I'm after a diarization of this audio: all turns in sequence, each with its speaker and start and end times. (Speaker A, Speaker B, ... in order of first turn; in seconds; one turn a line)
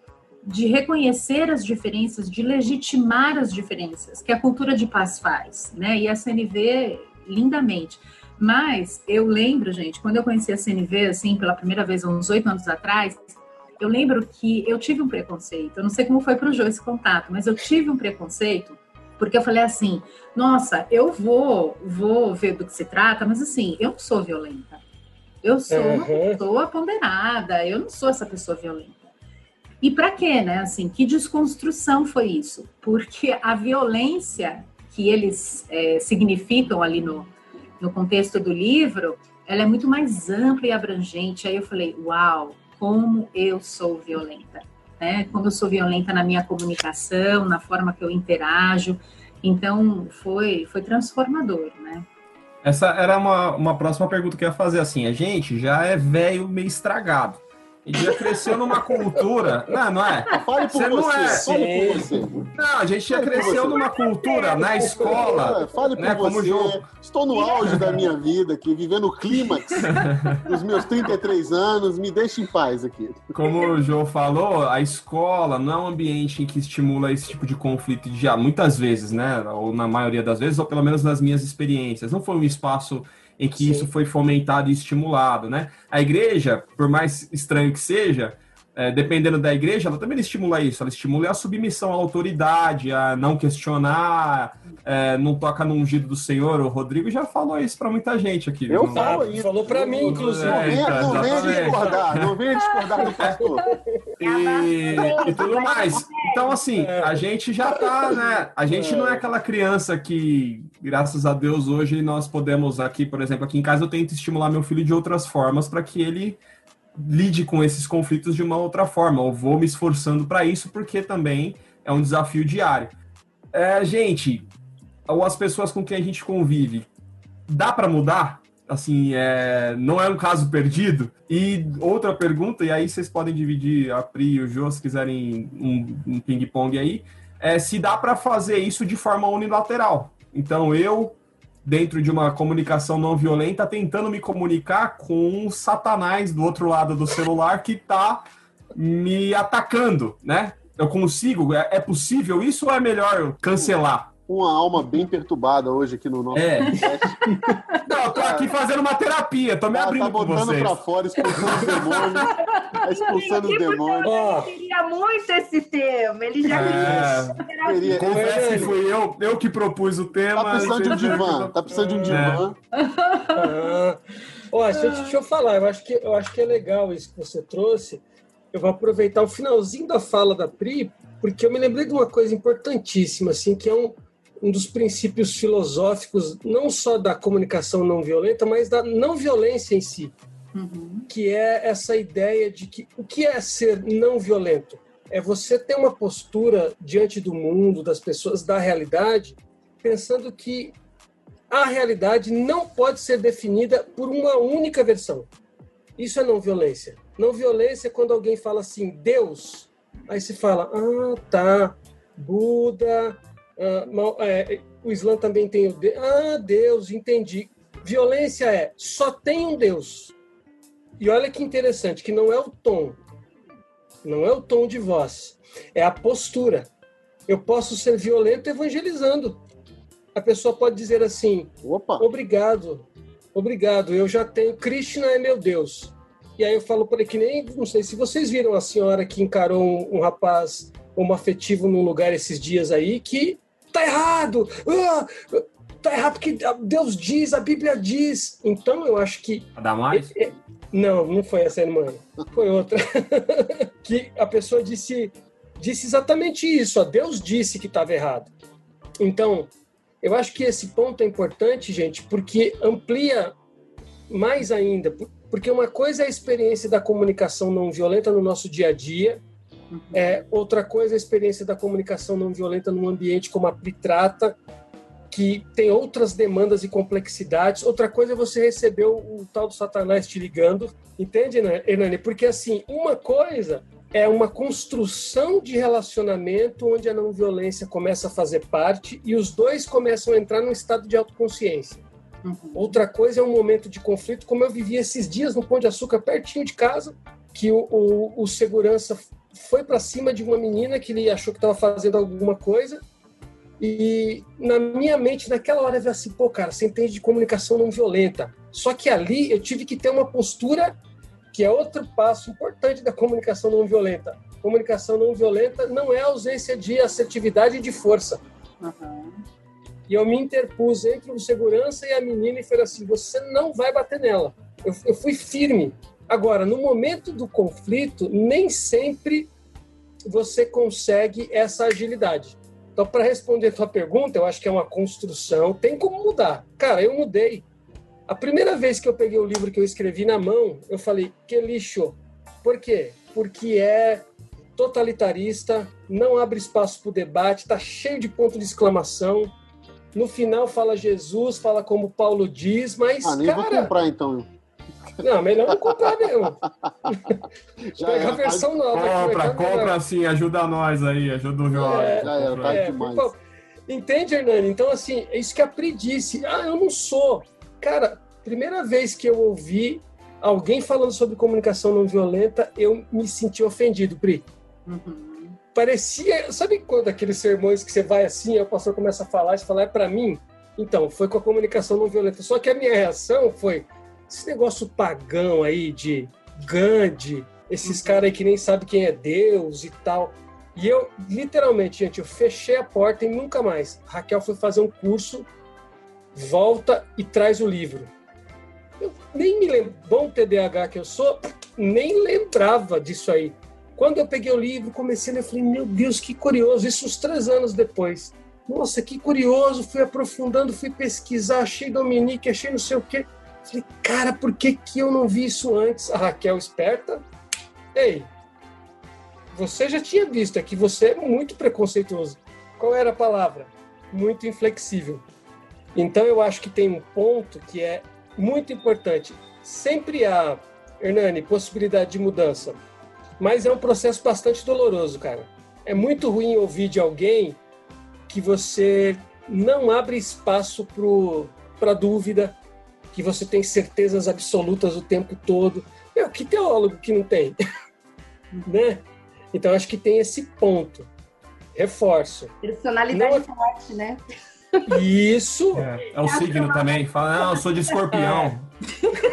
Speaker A: 0.4-24.8
Speaker A: 25.4-29.1
Speaker B: 25.7-26.4
Speaker A: 29.8-52.0
Speaker C: 52.6-61.5
Speaker D: 60.3-62.5
Speaker B: 61.3-62.1
Speaker C: 62.5-66.9
Speaker D: 63.1-63.9
Speaker D: 64.8-73.3
Speaker C: 69.8-70.5
Speaker C: 73.3-99.4
Speaker B: 83.6-83.9
Speaker D: 98.7-103.6
Speaker B: 98.9-102.0
Speaker C: 100.0-102.4
Speaker C: 103.2-103.5
Speaker B: 103.6-104.0
Speaker C: 104.2-116.4
Speaker E: 104.2-106.6
Speaker B: 106.7-107.2
Speaker D: 108.7-109.3
Speaker C: 116.9-122.9
Speaker C: 123.5-124.5
Speaker C: 125.1-126.9
Speaker C: 127.5-148.2
Speaker C: 148.7-154.1
Speaker D: 154.3-157.3
Speaker C: 156.3-156.9
Speaker A: 157.5-157.8
Speaker C: 157.8-160.8
Speaker D: 158.1-158.5
Speaker D: 159.7-164.1
Speaker B: 161.3-161.9
Speaker C: 161.3-161.7
Speaker E: 162.5-168.1
Speaker B: 164.0-164.5
Speaker C: 166.5-172.5
Speaker B: 166.5-167.2
Speaker D: 166.5-166.9
Speaker D: 167.6-168.8
Speaker B: 168.0-168.8
Speaker D: 170.3-172.6
Speaker A: 172.8-173.7
Speaker B: 173.3-178.0
Speaker A: 174.7-175.1
Speaker B: 178.5-190.1
Speaker A: 190.5-191.1
Speaker B: 191.1-200.7
Speaker B: 201.5-205.3
Speaker B: 206.0-220.1
Speaker B: 221.0-223.0
Speaker B: 224.0-226.7
Speaker B: 227.3-229.4
Speaker B: 230.1-258.3
Speaker D: 231.6-232.1
Speaker C: 249.6-250.1
Speaker B: 259.0-259.5
Speaker B: 260.0-263.3
Speaker B: 264.1-269.2
Speaker A: 269.7-270.2
Speaker B: 269.9-274.4
Speaker B: 275.1-291.8
Speaker A: 292.2-292.8
Speaker B: 292.5-302.8
Speaker B: 303.6-310.7
Speaker B: 311.3-318.2
Speaker A: 318.6-319.2
Speaker B: 319.9-329.3
Speaker B: 330.1-337.4
Speaker B: 338.1-344.0
Speaker B: 344.6-349.3
Speaker B: 349.9-353.7
Speaker D: 353.0-354.3
Speaker B: 355.0-357.2
Speaker D: 355.5-355.9
Speaker D: 357.7-358.5
Speaker B: 357.8-359.8
Speaker C: 358.7-362.6
Speaker B: 361.5-363.2
Speaker D: 361.6-363.1
Speaker B: 363.7-374.2
Speaker A: 374.7-375.4
Speaker B: 375.5-395.3
Speaker A: 387.6-388.1
Speaker B: 396.1-397.9
Speaker B: 398.8-417.0
Speaker B: 417.7-418.1
Speaker B: 419.3-425.0
Speaker B: 425.7-432.6
Speaker B: 433.2-437.4
Speaker B: 438.1-442.4
Speaker B: 442.9-447.4
Speaker B: 448.4-448.8
Speaker B: 449.3-450.9
Speaker B: 451.5-452.3
Speaker E: 452.4-454.0
Speaker B: 452.9-453.3
Speaker B: 454.7-455.7
Speaker C: 455.5-458.5
Speaker E: 456.0-457.8
Speaker B: 457.9-458.3